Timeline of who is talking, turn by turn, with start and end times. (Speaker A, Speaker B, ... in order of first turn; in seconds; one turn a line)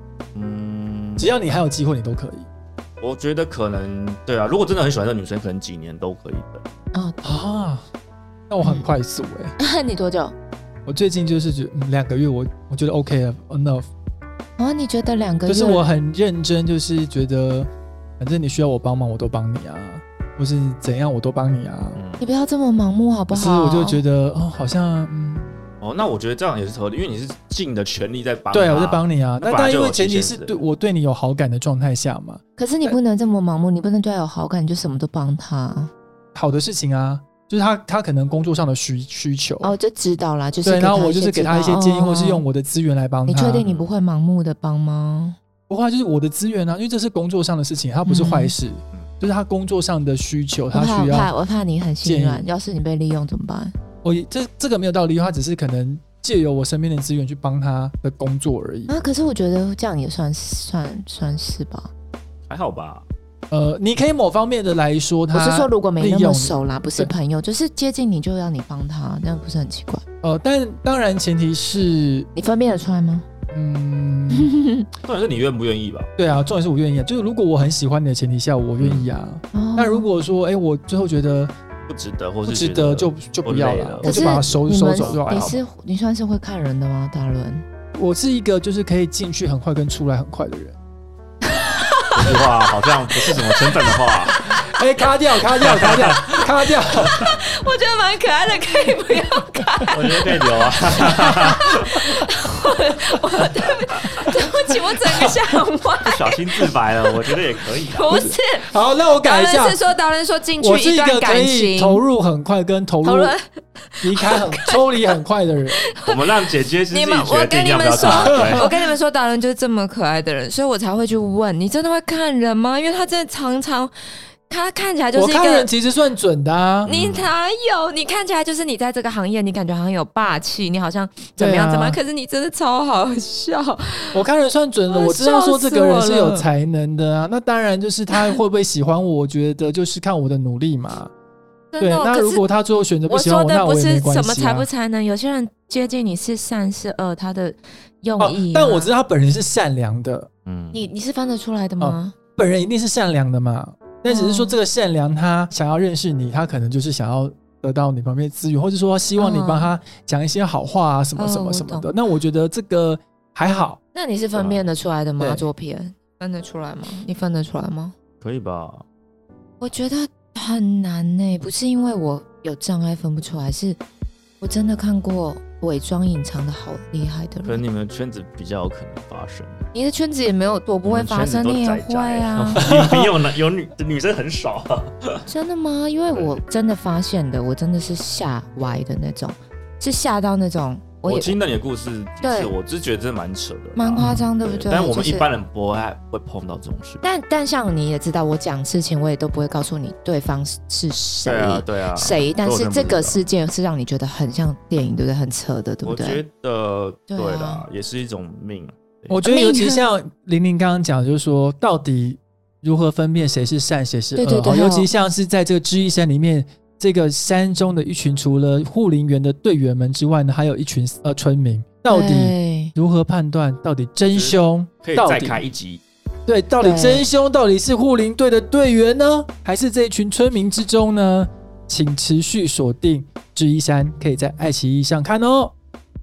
Speaker A: 0.3-1.3
Speaker B: 1.2-2.5
Speaker A: 3.0-6.6
Speaker C: 6.9-7.3
Speaker B: 7.2-7.8
Speaker B: 8.5-9.5
Speaker C: 8.6-8.9
Speaker C: 9.6-10.3
Speaker B: 10.8-13.9
Speaker C: 14.6-15.9
Speaker B: 15.5-22.0
Speaker A: 21.9-22.2
Speaker C: 22.2-24.0
Speaker B: 23.3-25.6
Speaker A: 25.8-30.6
Speaker B: 28.5-33.0
Speaker C: 32.6-35.9
Speaker B: 36.3-39.7
Speaker C: 39.6-42.4
Speaker B: 40.6-43.6
Speaker C: 43.3-45.4
Speaker A: 43.6-43.9
Speaker B: 45.7-51.3
Speaker C: 48.0-48.5
Speaker C: 50.7-53.7
Speaker B: 52.0-52.5
Speaker B: 54.0-58.9
Speaker C: 58.9-61.9
Speaker A: 62.5-63.0
Speaker B: 63.5-67.1
Speaker C: 65.3-70.0
Speaker B: 70.2-72.3
Speaker C: 72.3-73.2
Speaker B: 73.5-74.5
Speaker C: 74.3-74.9
Speaker A: 75.0-76.1
Speaker B: 76.2-81.5
Speaker A: 78.8-79.1
Speaker C: 79.5-80.0
Speaker A: 81.9-85.6
Speaker B: 82.4-85.5
Speaker C: 84.0-87.6
Speaker B: 87.9-90.8
Speaker C: 91.4-94.6
Speaker A: 92.1-94.5
Speaker B: 94.6-97.3
Speaker A: 95.6-96.5
Speaker C: 97.0-108.7
Speaker A: 99.9-101.9
Speaker B: 104.1-105.3
Speaker A: 106.0-108.1
Speaker B: 108.1-109.8
Speaker C: 109.2-112.0
Speaker B: 110.6-113.3
Speaker C: 113.0-115.1
Speaker B: 114.0-115.8
Speaker C: 115.8-123.9
Speaker A: 116.0-118.7
Speaker B: 118.0-118.7
Speaker C: 124.5-125.7
Speaker B: 125.1-126.9
Speaker A: 126.8-127.3
Speaker C: 126.8-134.2
Speaker B: 131.4-132.0
Speaker B: 134.1-141.1
Speaker C: 134.9-136.5
Speaker C: 141.7-142.4
Speaker B: 141.8-144.7
Speaker C: 143.1-148.9
Speaker B: 148.2-150.3
Speaker A: 150.4-150.8
Speaker C: 150.7-152.1
Speaker B: 151.8-163.8
Speaker C: 154.1-154.6
Speaker C: 159.2-159.7
Speaker C: 161.2-161.9
Speaker C: 163.9-167.9
Speaker A: 164.3-164.6
Speaker B: 165.2-165.5
Speaker A: 168.2-168.8
Speaker C: 169.6-173.8
Speaker C: 174.4-177.6
Speaker A: 177.4-179.6
Speaker C: 179.7-182.7
Speaker A: 180.8-185.2
Speaker B: 182.6-183.1
Speaker C: 185.3-191.4
Speaker A: 186.1-186.4
Speaker A: 191.0-197.0
Speaker C: 192.2-192.5
Speaker C: 193.8-195.2
Speaker B: 194.0-194.3
Speaker C: 197.0-206.2
Speaker A: 201.2-203.2
Speaker A: 205.8-209.2
Speaker C: 207.1-207.6
Speaker B: 209.1-225.4
Speaker C: 209.2-209.8
Speaker C: 214.1-214.9
Speaker C: 221.9-222.7
Speaker A: 224.1-225.8
Speaker B: 226.3-235.5
Speaker C: 226.6-227.0